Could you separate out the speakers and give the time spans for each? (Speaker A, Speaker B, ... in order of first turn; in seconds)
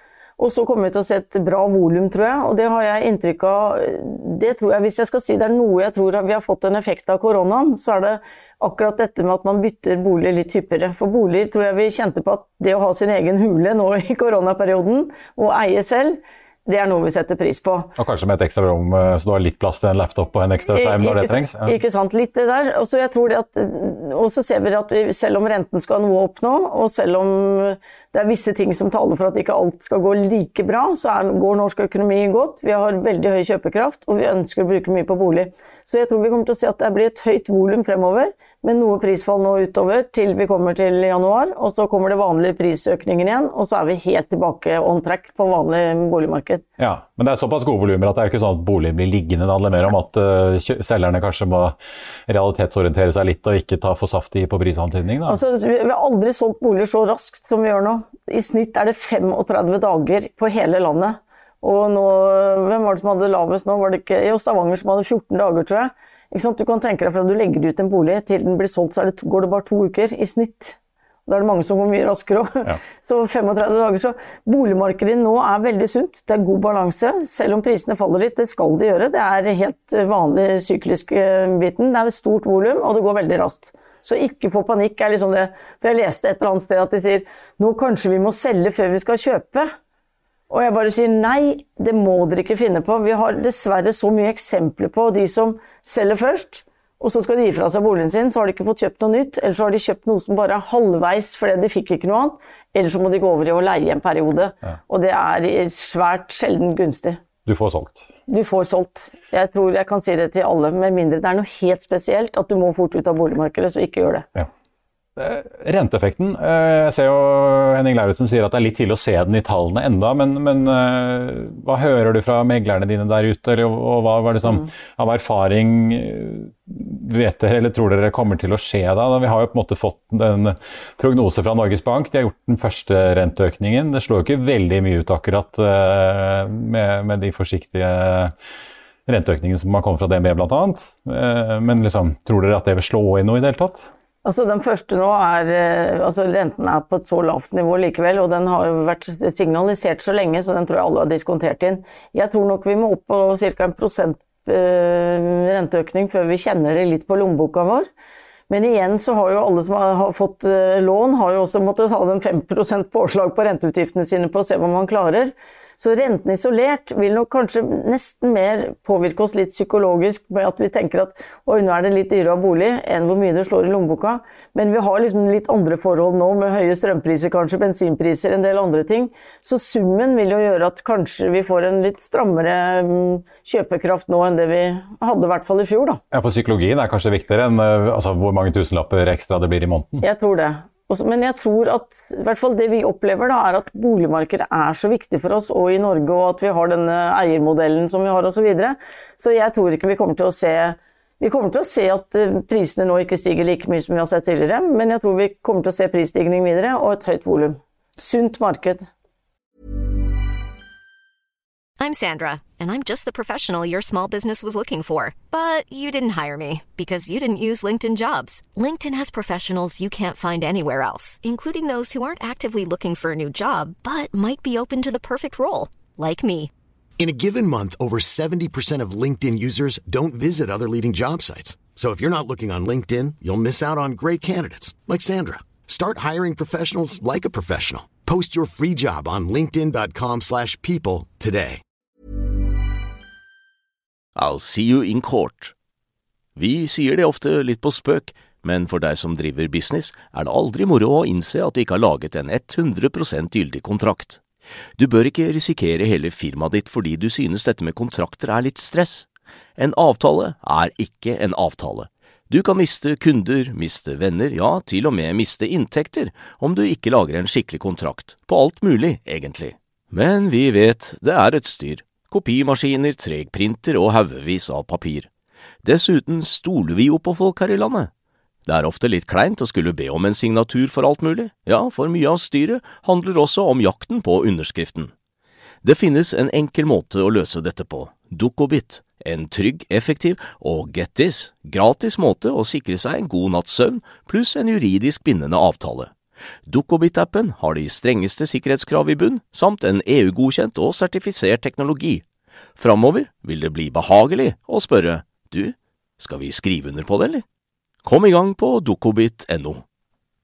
Speaker A: 0.4-17.9, 20.7-46.6, 55.3-89.7, 90.5-107.2, 108.3-114.3, 144.2-157.9, 158.5-186.0, 190.0-208.9
Speaker B: 18.0-21.8, 46.8-51.8, 52.3-55.4, 107.5-108.1, 115.2-138.3, 139.1-143.9, 186.1-190.0
Speaker C: 211.8-226.5
Speaker D: 227.0-241.6
Speaker E: 244.2-245.5, 246.4-254.2, 254.8-275.1, 275.6-277.9, 278.5-284.9, 285.6-295.9, 296.5-302.1, 302.6-307.2, 307.9-309.6